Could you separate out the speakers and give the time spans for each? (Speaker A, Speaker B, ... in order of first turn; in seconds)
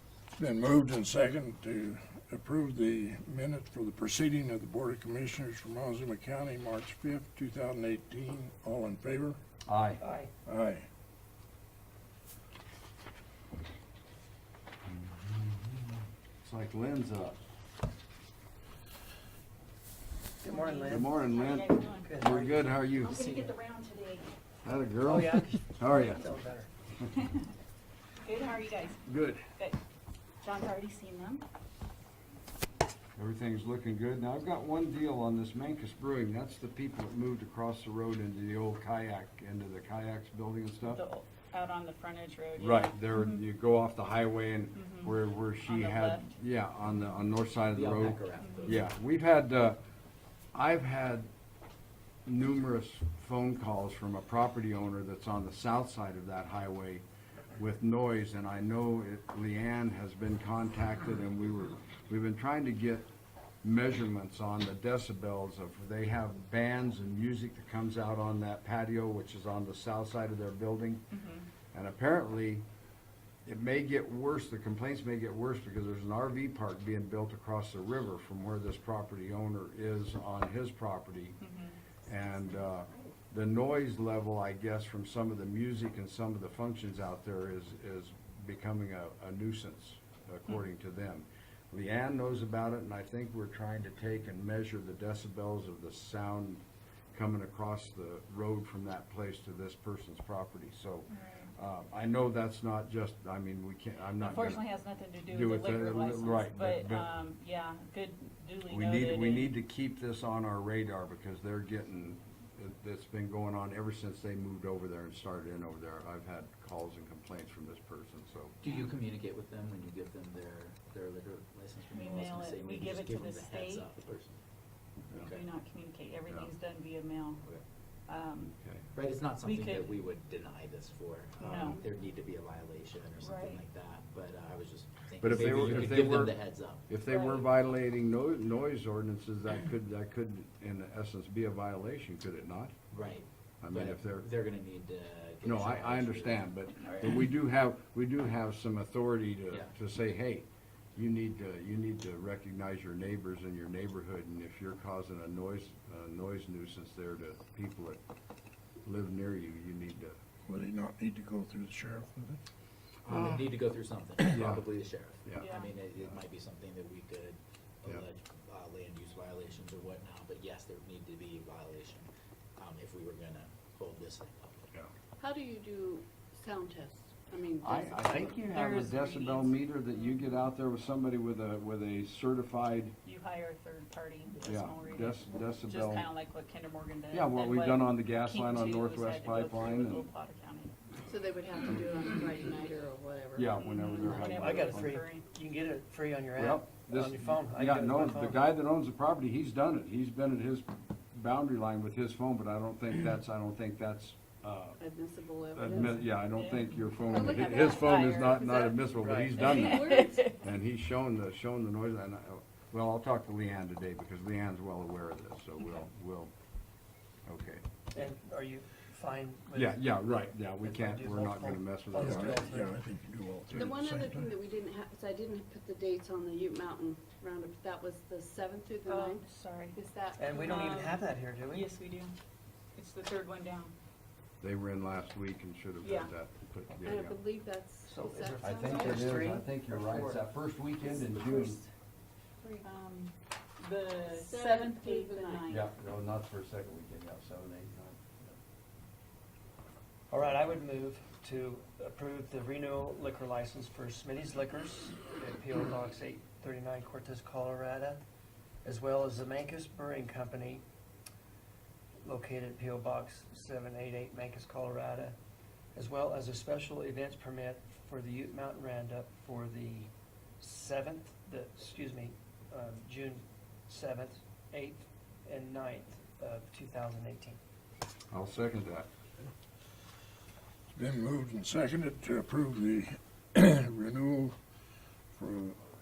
Speaker A: 0.4-9.4, 10.5-10.9, 160.5-162.4, 222.0-224.4, 280.7-284.4, 285.1-285.6
Speaker B: 9.7-10.0, 14.9-17.4, 20.9-23.2, 24.6-26.2, 29.1-29.4, 33.2-41.0, 42.6-49.8, 50.5-51.3, 52.3-57.0, 57.5-63.1, 63.6-71.1, 71.7-72.6, 73.5-81.4, 82.0-104.6, 105.3-107.1, 108.7-118.6, 135.2-142.8, 143.6-144.4, 145.4-158.0, 158.8-160.2, 164.3-164.7, 165.2-165.5, 177.6-183.0, 184.4-186.1, 187.1-190.1, 193.3-195.0, 196.4-204.8, 205.5-216.3, 217.3-217.6, 219.5-222.6, 234.4-237.2, 238.4-241.6, 245.5-248.4, 278.1-278.9
Speaker C: 10.0-10.3, 20.4-21.2, 21.9-22.5, 25.0-26.7, 194.2-198.4, 209.0-209.4, 217.9-222.7, 230.2-231.7, 237.9-240.3, 250.1-258.0, 258.6-260.6, 262.0-265.2, 265.8-277.4
Speaker D: 20.4-24.3, 28.2-29.8, 30.4-31.4, 40.9-43.4, 44.8-46.3, 48.4-48.8, 71.1-71.5, 81.4-81.8, 101.1-101.5, 104.2-109.5, 121.9-123.9, 125.2-127.5, 128.1-128.6, 129.4-129.9, 131.4-131.8, 133.2-133.6, 137.1-137.5, 165.4-165.7, 178.5-179.5, 183.1-190.7, 193.7-195.2, 206.2-208.8, 209.5-210.3, 228.9-229.8, 230.4-232.1, 232.8-233.7, 235.8-236.1, 242.4-245.7
Speaker E: 47.7-48.9, 118.6-124.4, 125.1-125.5, 128.9-136.9, 142.9-147.2, 163.0-174.7
Speaker F: 175.2-178.4, 191.1-194.6, 204.8-206.1, 209.3-210.3, 223.5-230.9, 236.8-239.1, 240.8-241.7, 244.0-245.5